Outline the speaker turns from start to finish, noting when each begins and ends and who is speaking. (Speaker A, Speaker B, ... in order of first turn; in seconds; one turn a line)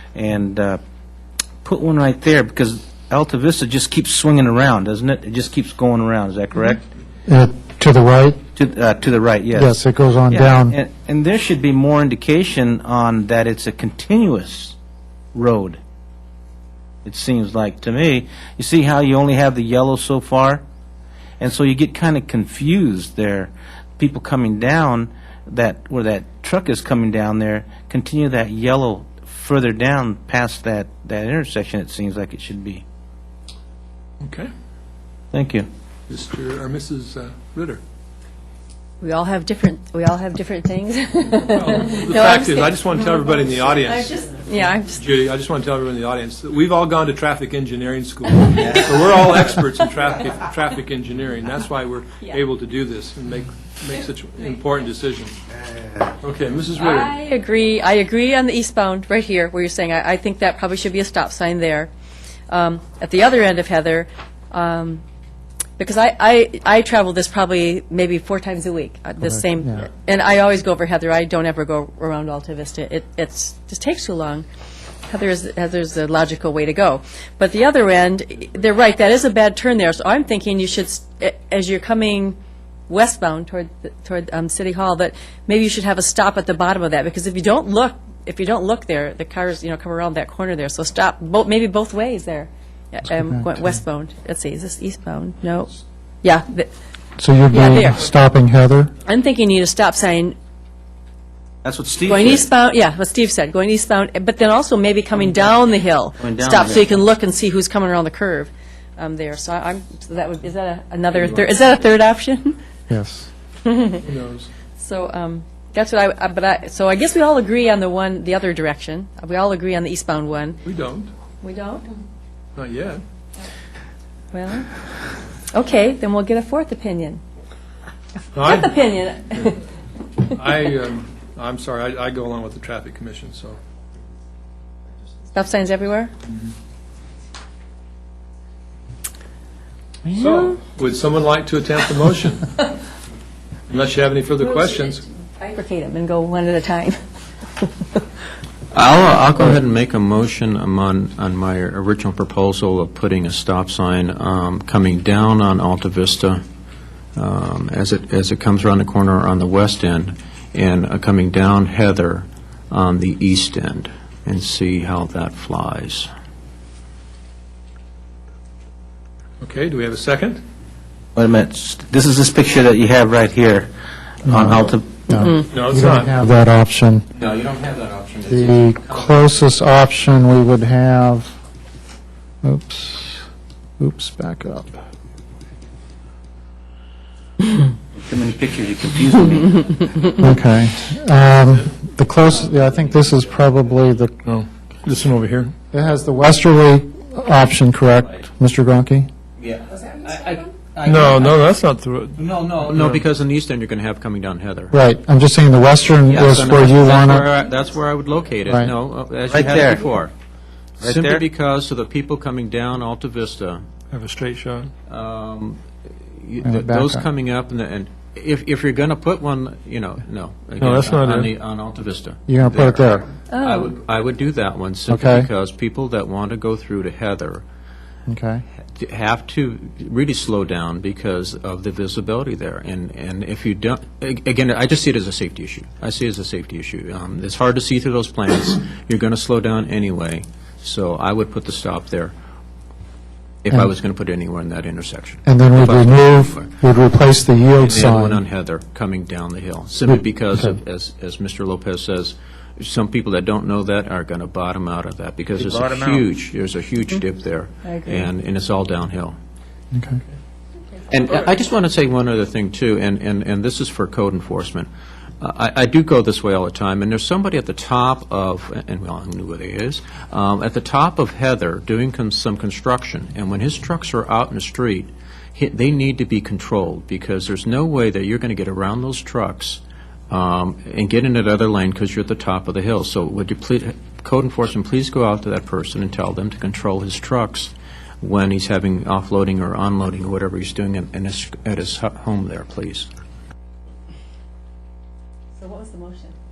Speaker A: 0.1-0.8
Speaker A: 1.6-6.8
Speaker B: 7.3-8.4
Speaker A: 8.5-9.8
Speaker B: 9.6-10.8
Speaker A: 10.3-14.8
Speaker A: 15.3-15.8
Speaker A: 17.0-20.6
Speaker A: 21.4-32.8
Speaker C: 34.2-34.5
Speaker A: 35.3-35.7
Speaker C: 36.1-37.8
Speaker D: 39.0-43.3
Speaker C: 41.3-44.4
Speaker D: 43.9-45.0
Speaker C: 44.9-55.4
Speaker C: 56.2-57.1
Speaker D: 56.8-61.9
Speaker D: 62.5-65.0
Speaker D: 65.8-74.5
Speaker B: 69.2-69.8
Speaker D: 75.0-82.4
Speaker D: 82.9-96.7
Speaker B: 93.2-93.4
Speaker B: 97.2-98.9
Speaker D: 97.5-98.0
Speaker D: 99.0-100.3
Speaker A: 101.6-102.4
Speaker D: 102.0-112.6
Speaker A: 106.2-107.0
Speaker B: 112.9-113.3
Speaker D: 113.6-114.0
Speaker C: 114.0-114.5
Speaker D: 114.8-120.6
Speaker C: 120.6-121.1
Speaker D: 121.4-121.9
Speaker C: 122.5-123.0
Speaker D: 124.3-124.7
Speaker D: 125.5-127.2
Speaker C: 128.3-128.8
Speaker D: 128.4-129.6
Speaker C: 130.3-133.6
Speaker D: 135.3-136.1
Speaker C: 140.1-142.5
Speaker C: 143.7-145.0
Speaker D: 144.4-146.9
Speaker D: 147.6-148.0
Speaker E: 148.7-156.4
Speaker E: 157.1-166.1
Speaker C: 169.4-170.4
Speaker A: 171.2-173.7
Speaker A: 174.2-174.9
Speaker B: 174.2-177.1
Speaker C: 175.5-176.1
Speaker E: 177.1-179.3
Speaker B: 178.3-181.3
Speaker B: 182.4-183.2
Speaker B: 183.8-184.8
Speaker A: 188.0-189.8
Speaker B: 190.2-194.2
Speaker E: 192.2-193.5
Speaker C: 194.2-195.5
Speaker B: 195.7-199.1
Speaker E: 199.4-201.3
Speaker C: 200.8-203.0
Speaker E: 202.2-204.8
Speaker B: 204.7-207.3
Speaker E: 206.1-210.1
Speaker B: 208.5-208.7
Speaker A: 209.3-209.8
Speaker A: 210.8-211.2
Speaker E: 210.8-213.7
Speaker C: 213.9-214.7
Speaker E: 214.9-227.4
Speaker B: 216.4-217.0
Speaker C: 220.6-221.3
Speaker B: 222.3-223.1
Speaker D: 223.3-223.7
Speaker B: 224.9-225.3
Speaker B: 228.1-228.4
Speaker E: 228.7-242.1
Speaker E: 243.4-246.5
Speaker B: 245.2-248.2
Speaker E: 247.6-259.1
Speaker B: 249.9-250.6
Speaker A: 255.4-256.1
Speaker D: 257.6-258.0
Speaker B: 259.7-260.0
Speaker E: 260.9-264.7
Speaker E: 265.2-292.9
Speaker D: 295.4-296.1